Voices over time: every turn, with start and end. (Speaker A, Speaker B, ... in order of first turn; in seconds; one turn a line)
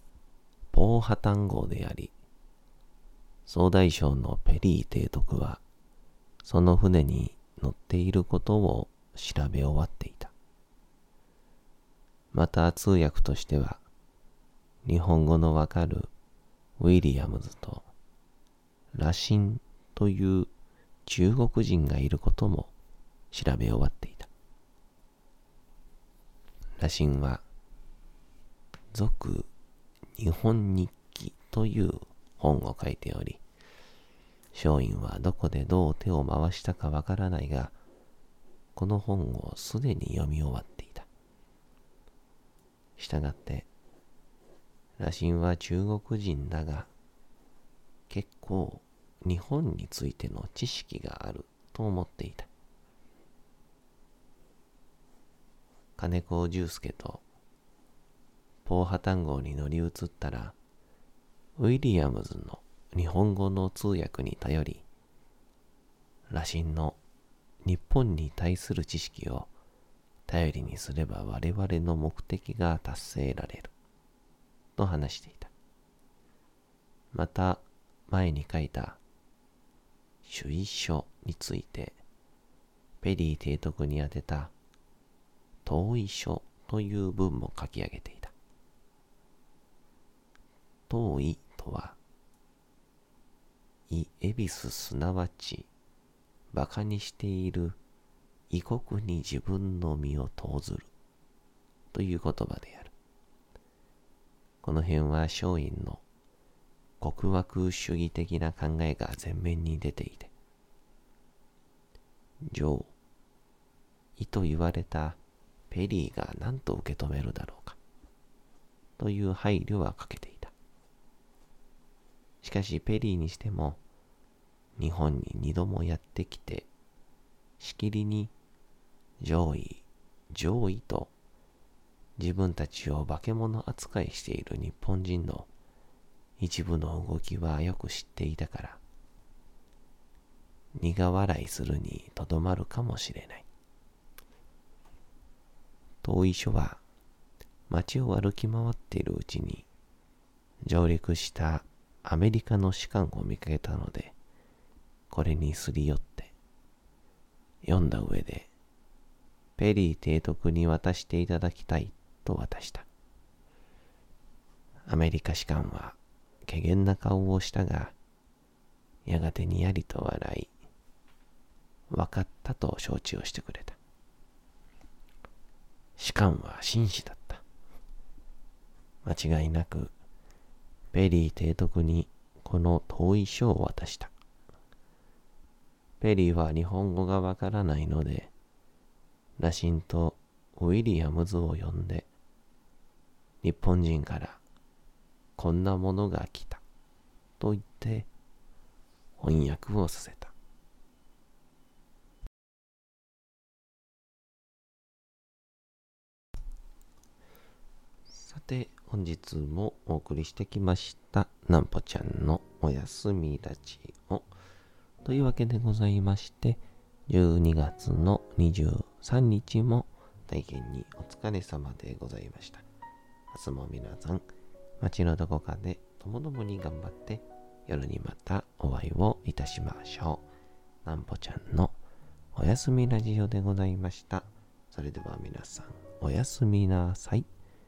Speaker A: 0.7-2.1
Speaker A: 3.5-5.6
Speaker A: 6.4-10.3
Speaker A: 12.3-13.8
Speaker A: 14.8-16.1
Speaker A: 16.8-17.9
Speaker A: 18.9-20.5
Speaker A: 21.0-22.7
Speaker A: 23.3-24.3
Speaker A: 26.8-27.4
Speaker A: 28.9-29.5
Speaker A: 30.1-33.4
Speaker A: 34.5-37.7
Speaker A: 38.7-41.1
Speaker A: 43.0-43.7
Speaker A: 45.0-46.9
Speaker A: 48.1-52.5
Speaker A: 56.0-57.2
Speaker A: 58.6-60.5
Speaker A: 61.6-64.8
Speaker A: 66.3-67.0
Speaker A: 67.6-69.5
Speaker A: 70.3-73.7
Speaker A: 74.8-75.5
Speaker A: 77.1-79.0
Speaker A: 80.2-82.0
Speaker A: 83.0-84.5
Speaker A: 85.6-88.3
Speaker A: 90.9-92.0
Speaker A: 93.9-95.7
Speaker A: 96.5-97.8
Speaker A: 98.5-100.9
Speaker A: 101.9-102.9
Speaker A: 104.6-106.0
Speaker A: 107.0-110.3
Speaker A: 112.4-112.9
Speaker A: 114.2-115.2
Speaker A: 115.7-117.8
Speaker A: 119.0-120.5
Speaker A: 122.4-123.8
Speaker A: 124.8-126.7
Speaker A: 127.6-128.3
Speaker A: 129.2-131.1
Speaker A: 132.2-135.5
Speaker A: 136.4-138.8
Speaker A: 140.7-143.5
Speaker A: 146.0-146.8
Speaker A: 147.7-149.7
Speaker A: 150.6-154.2
Speaker A: 155.1-156.3
Speaker A: 157.6-158.5
Speaker A: 159.6-162.9
Speaker A: 164.9-167.9
Speaker A: 169.0-170.5
Speaker A: 171.9-173.8
Speaker A: 176.0-177.4
Speaker A: 179.0-179.9
Speaker A: 180.9-184.1
Speaker A: 186.0-188.3
Speaker A: 189.4-192.1
Speaker A: 193.4-194.4
Speaker A: 195.4-196.6
Speaker A: 197.4-198.1
Speaker A: 199.2-200.3
Speaker A: 208.1-214.3
Speaker A: 215.0-222.6
Speaker A: 223.3-224.2
Speaker A: 224.8-230.3
Speaker A: 230.8-231.8
Speaker A: 232.3-237.3